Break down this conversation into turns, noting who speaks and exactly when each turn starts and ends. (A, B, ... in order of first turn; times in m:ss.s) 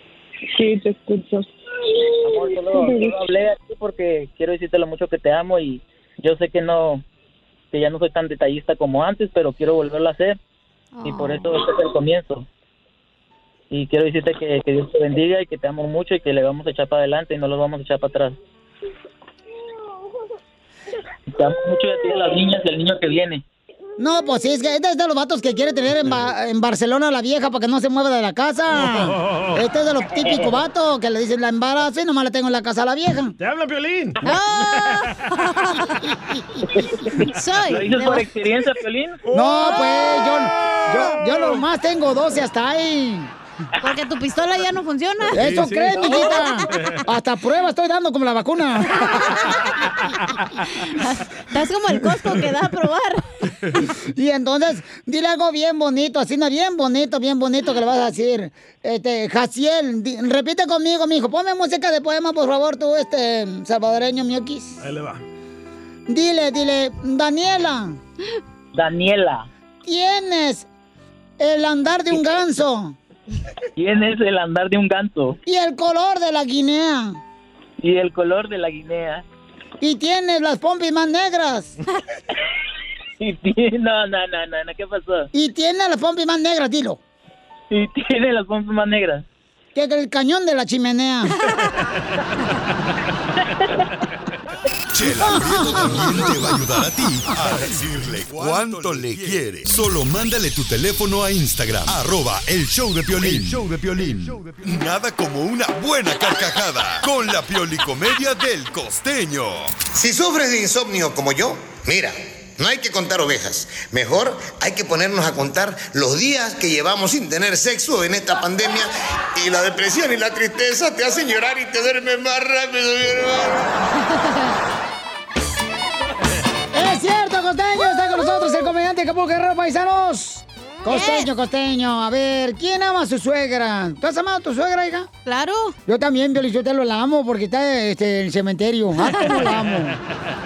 0:00.5-0:03.1 A
0:02.3-0:07.0 B
0:07.7-0:10.4 B
0:10.9-0:11.5 C
0:11.0-0:12.4 B
0:13.7-0:18.4 B
0:21.3-0:23.4 B
0:24.0-0:33.3 D
0:28.7-0:29.6 E
0:30.2-0:30.5 B
0:33.4-0:34.2 E
0:34.2-0:36.0 C
0:36.7-0:39.2 B
0:37.3-0:38.2 C
0:39.2-0:41.6 E
0:39.3-0:43.3 D
0:39.6-0:40.1 C
0:43.8-0:46.6 C
0:45.3-0:49.6 D
0:45.3-0:47.0 E
0:50.8-0:53.2 C
0:54.0-1:04.8 D
1:04.8-1:05.2 E
1:06.1-1:08.0 D
1:08.7-1:09.5 B
1:09.8-1:10.7 D
1:11.4-1:13.0 D
1:13.8-1:15.4 B
1:15.4-1:17.2 D
1:17.8-1:19.2 B
1:19.8-1:21.8 D
1:23.2-1:25.3 B
1:25.3-1:27.0 D
1:27.7-1:29.2 B
1:29.7-1:31.3 D
1:34.9-1:49.8 F
1:35.2-1:36.6 D
1:49.9-2:03.6 G
2:06.7-2:15.1 D
2:10.9-2:11.3 C
2:15.2-2:15.8 C
2:15.9-2:20.0 D
2:19.0-2:19.5 C